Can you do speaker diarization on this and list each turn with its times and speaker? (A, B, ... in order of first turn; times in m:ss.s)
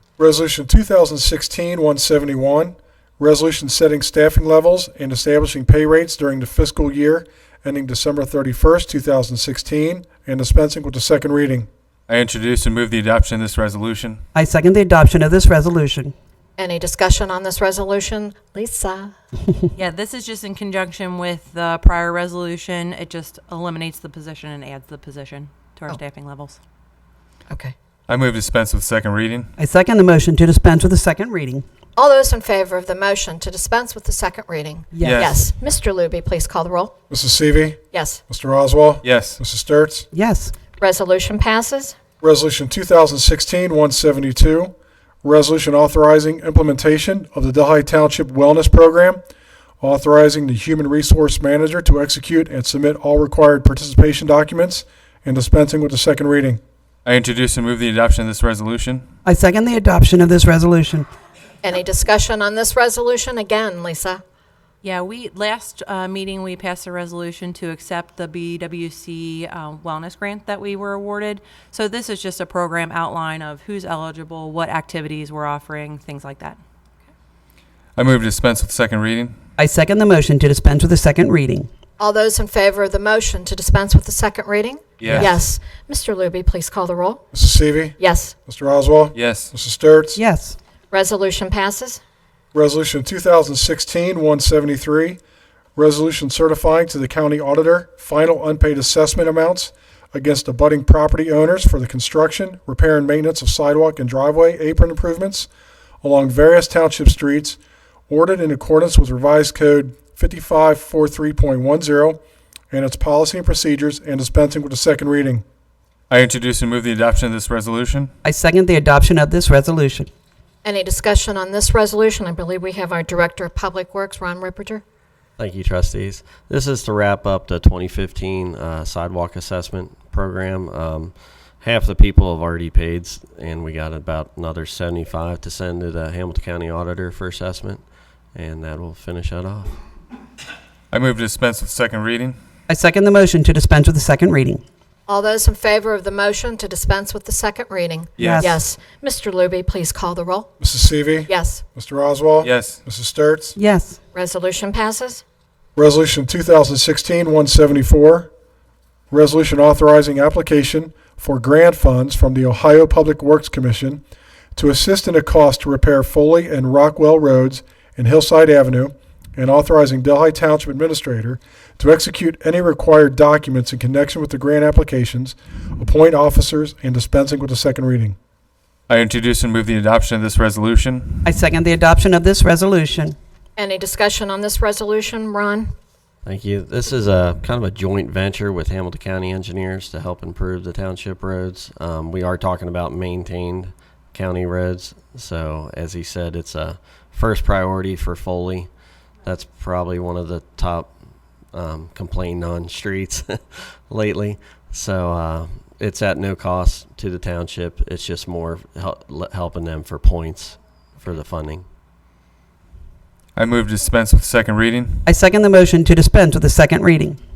0:00.2-0:11.7 A
0:12.1-0:14.2 B
0:14.4-0:16.1 C
0:16.6-0:19.2 D
0:19.8-0:26.6 E
0:27.5-0:27.7 D
0:28.1-0:29.5 B
0:29.6-0:31.6 C
0:32.0-0:36.9 D
0:34.9-0:35.3 C
0:35.0-0:35.4 B
0:37.1-0:40.0 A
0:37.9-0:38.2 D
0:39.0-0:39.4 B
0:40.1-0:40.5 C
0:40.8-0:42.0 D
0:42.2-0:44.7 A
0:45.2-0:49.2 A
0:49.8-0:56.6 A
0:57.0-0:59.0 B
0:59.2-1:01.1 C
1:01.6-1:04.2 D
1:04.8-1:16.6 E
1:18.0-1:19.3 B
1:19.6-1:21.7 C
1:22.0-1:27.2 D
1:25.1-1:25.4 C
1:27.3-1:30.2 A
1:28.0-1:28.3 D
1:29.1-1:29.5 B
1:30.2-1:30.6 C
1:30.9-1:32.0 D
1:32.5-1:35.2 A
1:35.8-1:45.5 A
1:46.0-1:47.6 A
1:48.1-1:52.2 A
1:52.7-1:55.4 A
1:56.1-1:58.1 B
1:58.2-2:00.1 C
2:00.6-2:04.8 D
2:05.4-2:19.8 F
2:20.9-2:22.4 B
2:22.7-2:24.6 C
2:25.1-2:30.5 D
2:28.2-2:28.6 C
2:30.6-2:33.6 A
2:31.3-2:31.6 D
2:32.4-2:32.8 B
2:33.6-2:34.0 C
2:34.1-2:35.2 D
2:35.8-2:38.3 A
2:39.1-2:44.0 A
2:44.6-2:58.2 A
2:58.9-3:01.3 B
3:01.2-3:03.2 C
3:03.6-3:05.7 D
3:06.2-3:18.7 F
3:19.2-3:21.0 F
3:21.5-3:31.7 F
3:33.3-3:35.0 B
3:35.1-3:37.2 C